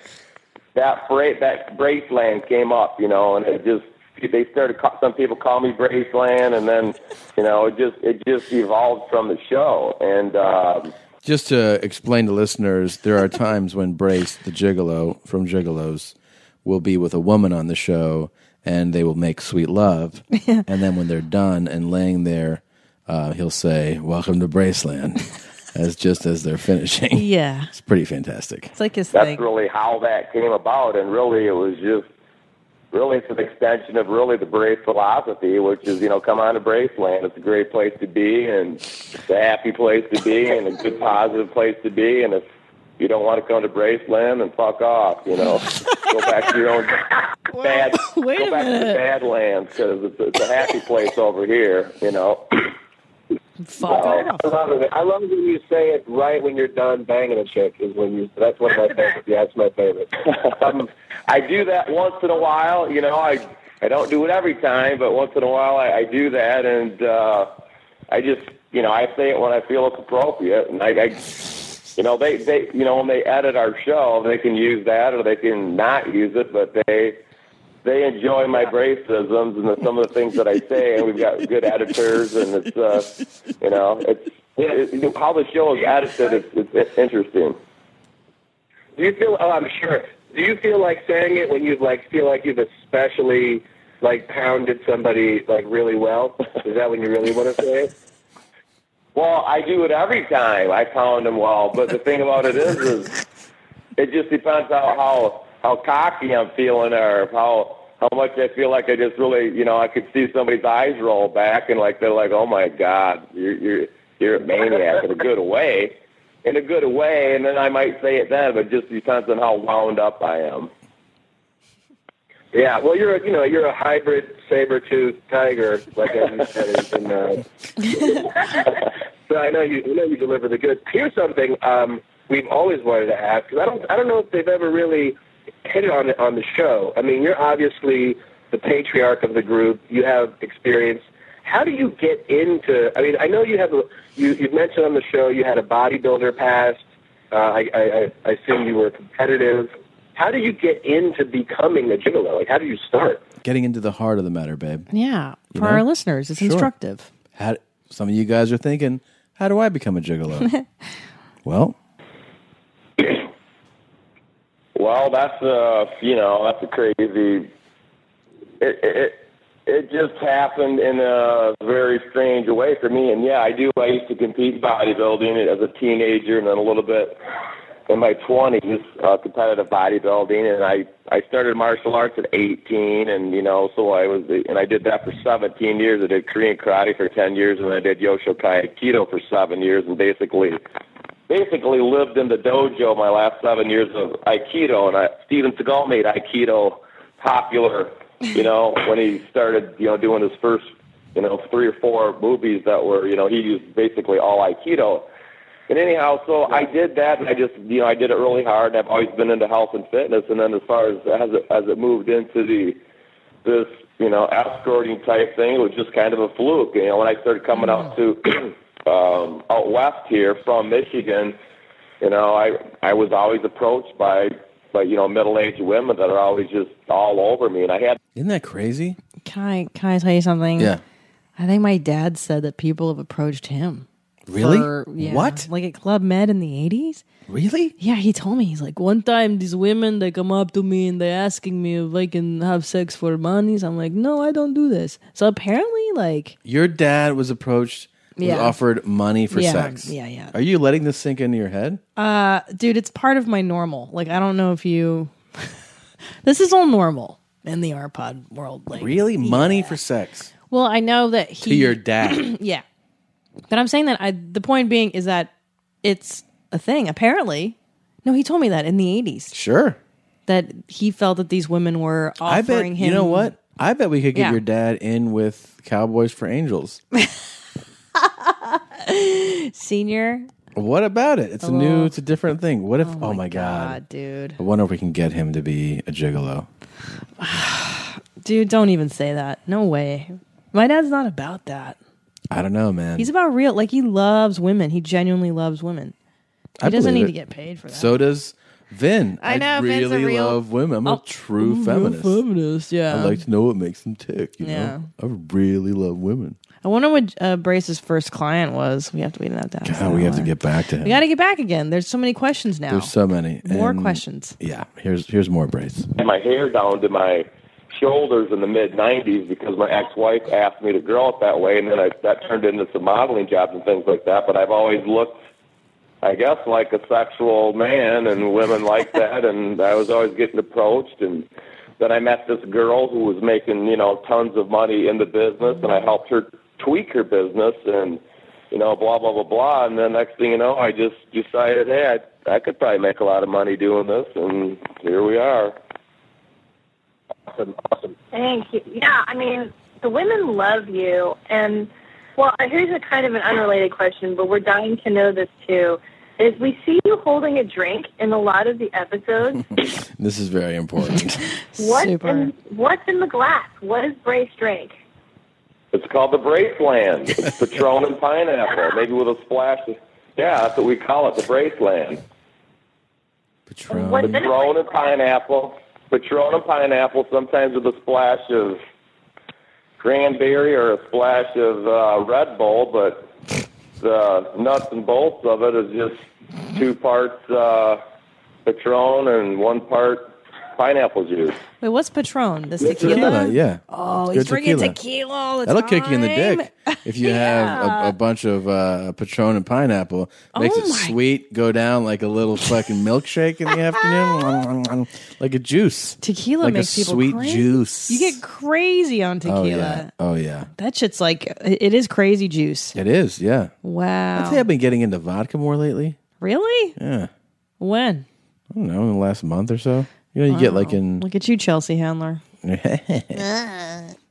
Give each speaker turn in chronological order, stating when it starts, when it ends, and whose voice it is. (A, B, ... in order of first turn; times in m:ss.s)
0:00.8-0:10.9 A
0:11.2-0:28.7 B
0:20.3-0:20.6 C
0:27.1-0:27.7 C
0:28.7-0:29.4 C
0:29.1-0:32.0 A
0:32.9-0:42.4 A
0:43.0-0:52.7 A
0:47.5-0:49.0 C
0:53.6-0:54.5 C
0:54.4-1:00.1 D
1:00.5-1:07.5 A
1:08.1-1:17.2 A
1:17.8-1:27.6 A
1:29.0-1:37.9 D
1:39.2-1:43.2 A
1:44.0-2:00.7 A
2:02.5-2:07.4 D
2:09.3-2:33.2 D
2:33.4-2:34.9 B
2:34.9-2:37.1 C
2:35.5-2:35.8 B
2:36.4-2:36.7 B
2:37.4-2:40.5 B
2:41.4-2:41.8 B
2:43.0-2:43.2 A
2:44.8-2:47.5 A
2:48.6-2:57.2 A
2:57.9-3:10.6 A
3:11.3-3:25.1 A
3:25.7-3:32.8 A
3:33.4-3:41.4 A
3:42.0-3:48.0 A
3:48.2-3:49.0 B
3:49.2-3:50.7 C
3:51.4-3:57.0 C
3:54.3-3:55.5 B
3:57.3-3:57.8 B
3:57.8-4:06.4 C
4:06.4-4:11.8 B
4:08.2-4:08.6 C
4:09.3-4:10.3 C
4:12.0-4:15.6 C
4:16.2-4:19.8 C
4:18.7-4:20.3 B
4:20.5-4:22.6 C
4:21.4-4:22.3 B
4:23.5-4:25.3 C
4:25.8-4:29.4 C
4:29.3-4:29.8 B
4:30.3-4:33.3 C
4:32.2-4:36.8 B
4:34.1-4:34.4 C
4:38.1-4:40.3 C
4:40.6-4:43.8 B
4:41.4-4:41.9 C
4:42.8-4:44.4 C
4:44.4-4:46.5 B
4:47.2-4:51.8 C
4:52.3-4:53.1 B
4:53.0-4:56.0 C
4:56.6-4:57.1 B
4:56.6-4:57.9 C
4:57.7-5:02.2 B
4:59.2-5:03.2 C
5:02.9-5:06.4 B
5:04.4-5:04.9 C
5:06.6-5:10.3 C
5:09.6-5:11.0 B
5:10.8-5:12.9 C
5:12.7-5:15.9 B
5:13.4-5:14.4 C
5:16.0-5:25.2 A
5:26.0-5:31.3 A
5:31.8-5:45.6 A
5:47.3-5:48.0 D
5:48.1-5:59.6 E
5:59.8-6:01.2 B
6:01.5-6:02.3 C
6:01.6-6:04.8 E
6:05.7-6:12.0 A
6:13.5-6:14.2 B
6:13.7-6:14.8 E
6:14.0-6:18.6 A
6:19.8-6:23.1 A
6:23.8-6:27.8 A
6:28.4-6:31.4 A
6:31.6-6:38.0 C
6:32.6-6:34.8 B
6:35.5-6:48.2 B
6:40.3-6:41.0 C
6:46.0-6:49.9 C
6:49.2-6:50.5 B
6:50.6-6:52.8 C
6:52.8-6:53.5 B
6:53.6-6:54.4 C
6:54.2-6:56.0 B
6:56.2-6:56.8 C
6:56.8-6:57.1 B
6:57.6-6:58.1 C
6:58.5-7:01.0 B
7:00.3-7:02.2 C
7:02.4-7:03.3 B
7:03.2-7:03.9 C